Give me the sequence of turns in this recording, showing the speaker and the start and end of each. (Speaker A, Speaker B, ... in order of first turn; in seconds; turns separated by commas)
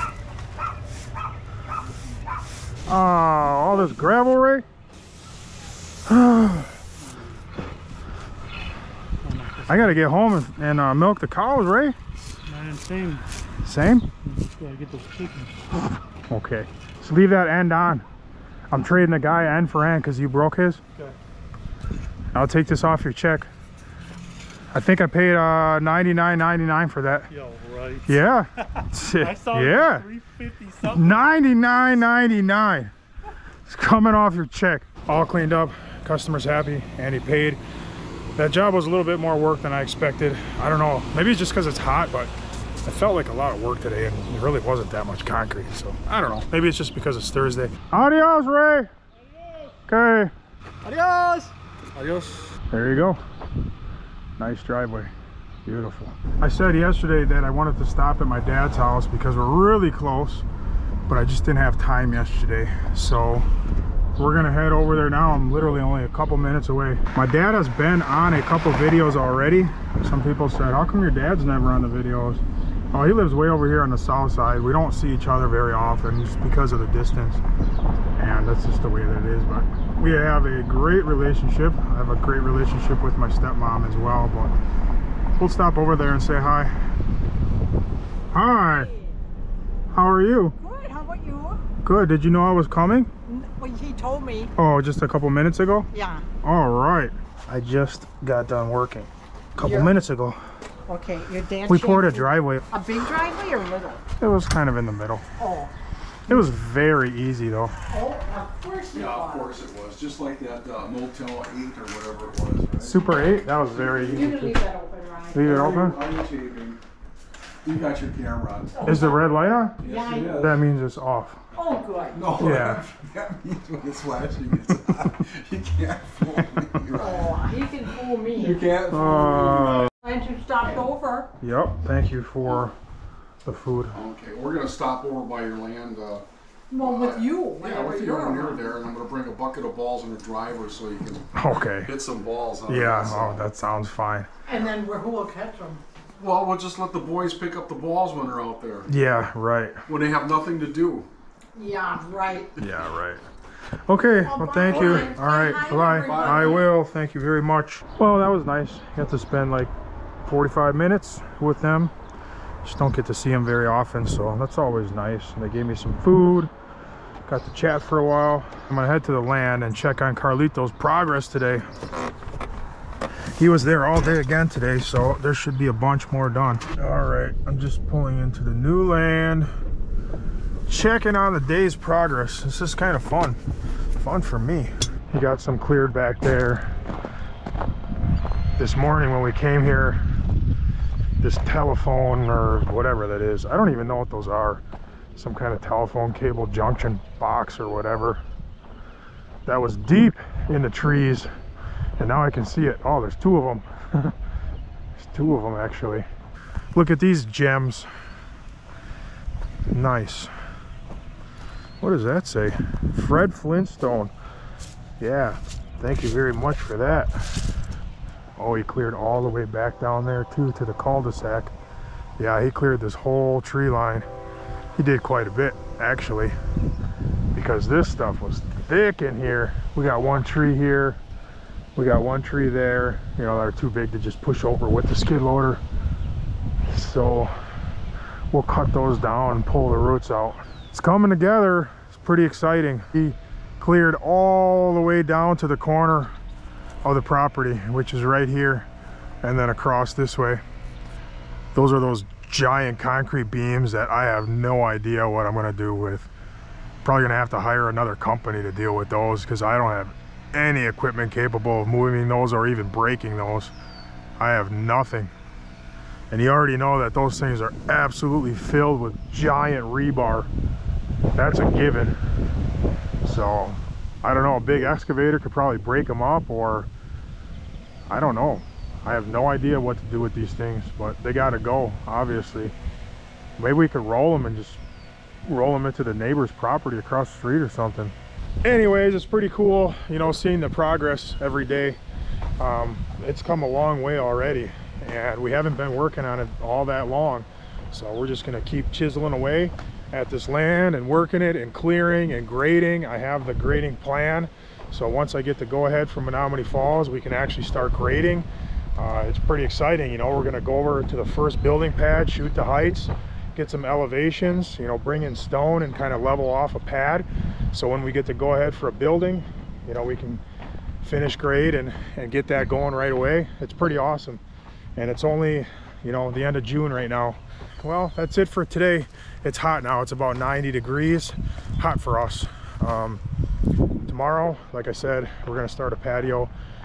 Speaker A: 2.9-4.6, Speaker A: 6.1-6.7, Speaker B: 9.2-10.0, Speaker A: 9.7-11.9, Speaker B: 12.4-13.2, Speaker A: 13.6-14.1, Speaker B: 14.2-15.6, Speaker A: 16.3-18.0, Speaker A: 18.7-20.8, Speaker A: 22.3-23.5, Speaker A: 24.7-27.3, Speaker B: 27.3-28.1, Speaker A: 28.1-30.1, Speaker B: 29.1-31.3, Speaker A: 30.9-32.9, Speaker A: 33.6-37.6, Speaker A: 38.4-42.3, Speaker A: 42.8-48.9, Speaker A: 49.9-50.3, Speaker B: 50.8-52.5, Speaker A: 52.7-53.2, Speaker A: 54.4-55.1, Speaker A: 55.6-60.4, Speaker A: 61.1-63.5, Speaker A: 64.2-72.4, Speaker A: 72.9-77.4, Speaker A: 78.2-84.5, Speaker A: 85.4-86.7, Speaker A: 88.3-88.9, Speaker C: 88.6-89.1, Speaker A: 89.9-90.5, Speaker C: 90.6-91.6, Speaker A: 91.8-93.1, Speaker C: 93.3-94.5, Speaker A: 94.6-95.9, Speaker C: 95.9-96.2, Speaker A: 96.4-100.4, Speaker C: 99.6-100.0, Speaker C: 100.9-104.0, Speaker A: 101.7-102.6, Speaker A: 104.2-105.2, Speaker C: 105.4-105.7, Speaker A: 106.3-107.7, Speaker C: 107.9-109.6, Speaker D: 108.9-114.3, Speaker A: 112.8-114.6, Speaker C: 114.0-115.6, Speaker A: 115.3-116.0, Speaker D: 115.4-116.8, Speaker D: 117.6-119.0, Speaker C: 118.8-119.2, Speaker A: 118.8-121.4, Speaker C: 119.8-120.5, Speaker D: 119.8-120.5, Speaker C: 121.5-122.5, Speaker D: 122.1-127.5, Speaker A: 122.4-122.8, Speaker C: 126.9-128.7, Speaker D: 128.2-129.9, Speaker A: 128.9-129.9, Speaker C: 129.8-131.3, Speaker A: 131.4-132.7, Speaker A: 133.4-134.0, Speaker D: 133.9-136.2, Speaker C: 136.7-138.8, Speaker D: 136.8-143.5, Speaker A: 141.3-141.9, Speaker A: 142.7-144.3, Speaker C: 144.4-145.8, Speaker D: 146.2-148.9, Speaker A: 148.9-149.8, Speaker D: 149.9-151.1, Speaker C: 151.5-152.5, Speaker A: 152.6-153.2, Speaker A: 153.9-159.7, Speaker C: 154.2-156.7, Speaker D: 154.6-155.2, Speaker D: 155.9-156.7, Speaker A: 160.2-161.9, Speaker A: 162.6-166.5, Speaker A: 167.2-171.7, Speaker A: 173.4-179.5, Speaker A: 180.7-183.4, Speaker A: 184.0-186.7, Speaker A: 188.6-190.0, Speaker A: 191.2-194.6, Speaker A: 195.2-198.2, Speaker A: 199.4-201.3, Speaker A: 202.0-204.1, Speaker A: 205.0-206.1, Speaker A: 206.7-207.9, Speaker A: 209.7-210.3, Speaker A: 211.8-214.1, Speaker A: 215.0-217.4, Speaker A: 218.4-221.5, Speaker A: 222.2-224.1, Speaker A: 224.8-226.3, Speaker A: 227.3-231.0, Speaker A: 231.8-235.6, Speaker A: 236.7-237.3, Speaker A: 238.3-246.1, Speaker A: 246.8-248.7, Speaker A: 249.2-250.4, Speaker A: 251.5-256.1, Speaker A: 256.8-263.5, Speaker A: 264.2-265.1, Speaker A: 266.1-270.3, Speaker A: 271.1-271.9, Speaker A: 273.0-276.7, Speaker A: 277.9-282.5, Speaker A: 283.4-284.6, Speaker A: 285.2-291.8, Speaker A: 292.4-320.2, Speaker A: 320.8-324.2, Speaker A: 324.8-333.0, Speaker A: 333.9-336.3